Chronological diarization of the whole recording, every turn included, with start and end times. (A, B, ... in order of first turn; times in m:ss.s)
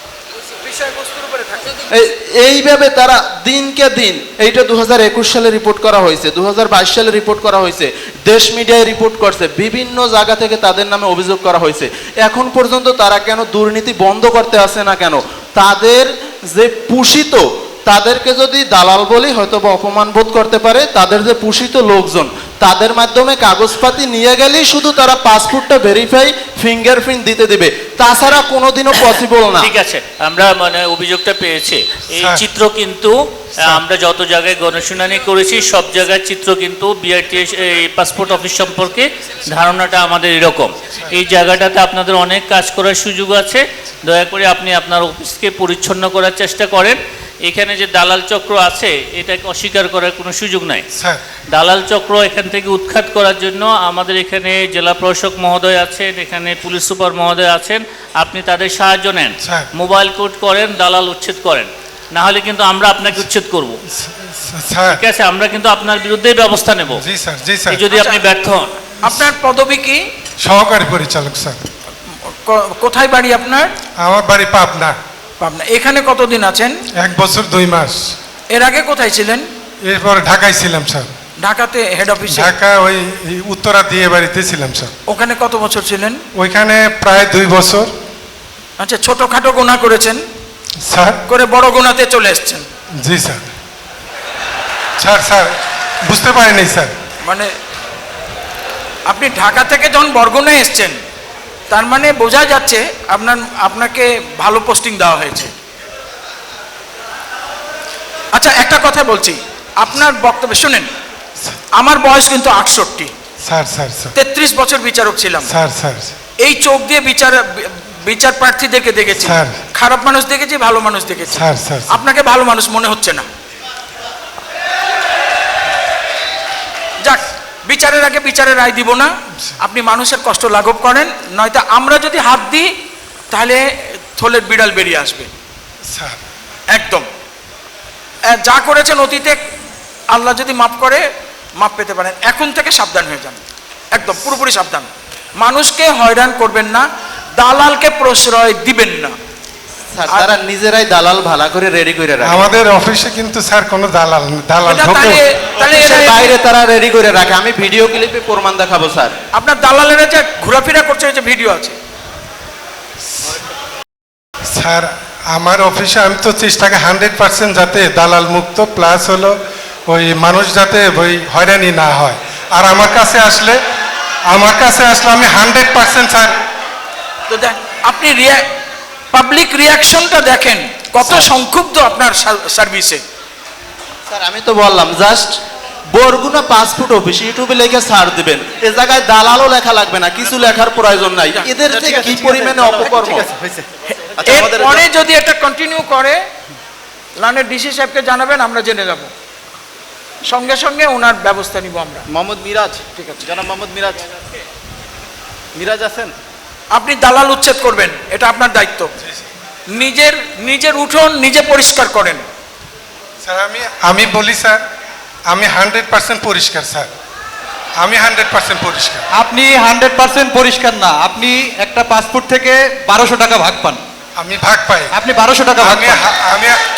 0:00.4-0:01.8 A
0:01.9-0:29.7 B
0:29.6-0:50.8 C
0:32.2-0:32.4 D
0:50.9-0:51.2 D
0:51.5-1:03.8 C
1:04.0-1:05.0 D
1:04.9-1:07.0 C
1:06.9-1:07.8 D
1:07.7-1:08.7 C
1:07.9-1:08.2 A
1:09.0-1:10.0 A
1:10.4-1:11.6 D
1:12.0-1:13.7 A
1:14.0-1:14.9 D
1:15.4-1:16.8 A
1:17.0-1:18.1 D
1:18.5-1:19.5 A
1:19.8-1:21.1 D
1:21.4-1:22.5 A
1:22.3-1:24.9 D
1:25.1-1:26.2 A
1:26.3-1:27.9 D
1:28.8-1:30.2 A
1:30.8-1:31.2 D
1:31.3-1:32.6 A
1:33.0-1:33.5 D
1:35.0-1:35.5 D
1:36.0-1:36.9 D
1:37.2-1:37.5 A
1:39.0-1:41.0 A
1:41.7-1:45.5 A
1:48.3-1:50.9 A
1:51.7-1:53.1 A
1:53.4-1:54.1 D
1:54.1-1:55.5 A
1:55.4-1:56.2 D
1:56.4-2:03.3 A
1:59.2-1:59.6 D
2:01.3-2:02.0 D
2:07.0-2:12.7 A
2:13.3-2:15.3 A
2:15.9-2:16.2 D
2:16.7-2:17.1 A
2:18.2-2:19.4 A
2:20.1-2:29.2 A
2:29.9-2:32.5 B
2:30.1-2:30.3 A
2:32.2-2:35.2 D
2:34.6-2:36.3 A
2:35.6-2:39.1 B
2:39.3-2:41.8 A
2:44.5-2:49.4 D
2:49.9-2:53.6 D
2:54.3-2:56.4 D
2:57.3-2:58.5 A
2:59.1-3:03.0 A
3:01.0-3:01.3 B
3:04.1-3:05.4 B
3:05.9-3:13.3 B
3:11.3-3:11.6 A
3:11.6-3:13.6 E
3:14.2-3:14.8 E
3:14.2-3:16.2 A
3:17.2-3:19.1 A
3:20.2-3:22.0 A
3:22.1-3:24.0 E
3:22.9-3:23.3 A
3:25.5-3:26.1 E
3:26.7-3:28.9 A
3:29.0-3:29.3 D
3:29.7-3:32.2 A
3:33.2-3:34.6 D
3:35.3-3:36.9 D
3:37.8-3:39.0 D
3:39.1-3:43.8 F
3:44.2-3:44.9 D
3:44.9-3:46.1 F
3:45.6-3:46.6 D